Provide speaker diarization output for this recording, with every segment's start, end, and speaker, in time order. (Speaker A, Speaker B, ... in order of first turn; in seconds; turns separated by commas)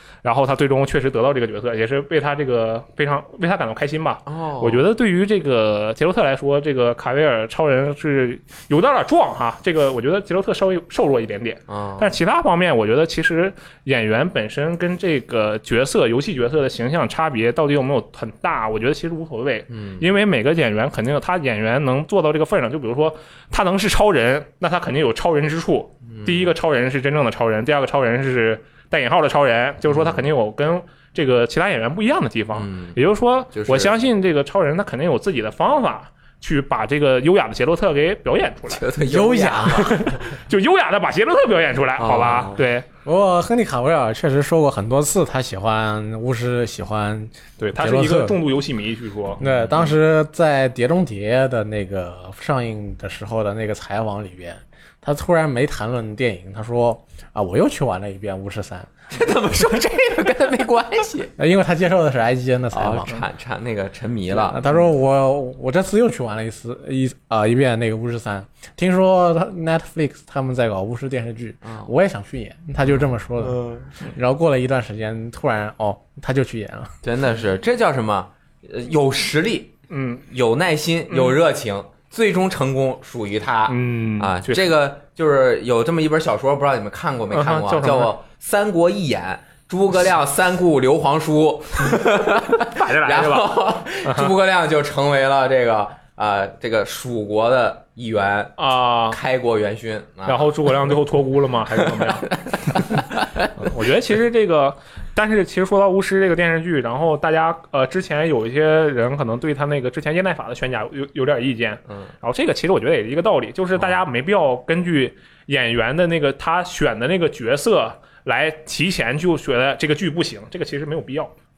Speaker A: 0.2-38.8, Speaker B: 4.3-4.8, Speaker B: 11.7-12.2, Speaker B: 19.7-20.1, Speaker B: 26.1-26.5, Speaker B: 29.9-30.2, Speaker B: 32.5-33.0, Speaker B: 33.5-34.0, Speaker B: 38.7-40.2, Speaker C: 39.0-40.1, Speaker A: 39.8-42.9, Speaker B: 42.0-42.6, Speaker C: 43.0-48.4, Speaker A: 47.6-49.4, Speaker C: 49.4-58.9, Speaker B: 49.4-49.9, Speaker B: 59.1-61.3, Speaker C: 61.4-63.2, Speaker B: 62.7-64.9, Speaker C: 64.3-76.9, Speaker B: 71.6-71.9, Speaker B: 72.9-73.9, Speaker B: 77.0-79.7, Speaker A: 79.9-80.2, Speaker B: 80.3-98.6, Speaker A: 81.1-81.4, Speaker A: 83.7-84.7, Speaker A: 87.3-88.1, Speaker A: 92.6-94.3, Speaker A: 98.6-99.2, Speaker B: 99.1-100.6, Speaker A: 100.3-103.0, Speaker B: 101.8-103.2, Speaker A: 103.6-121.3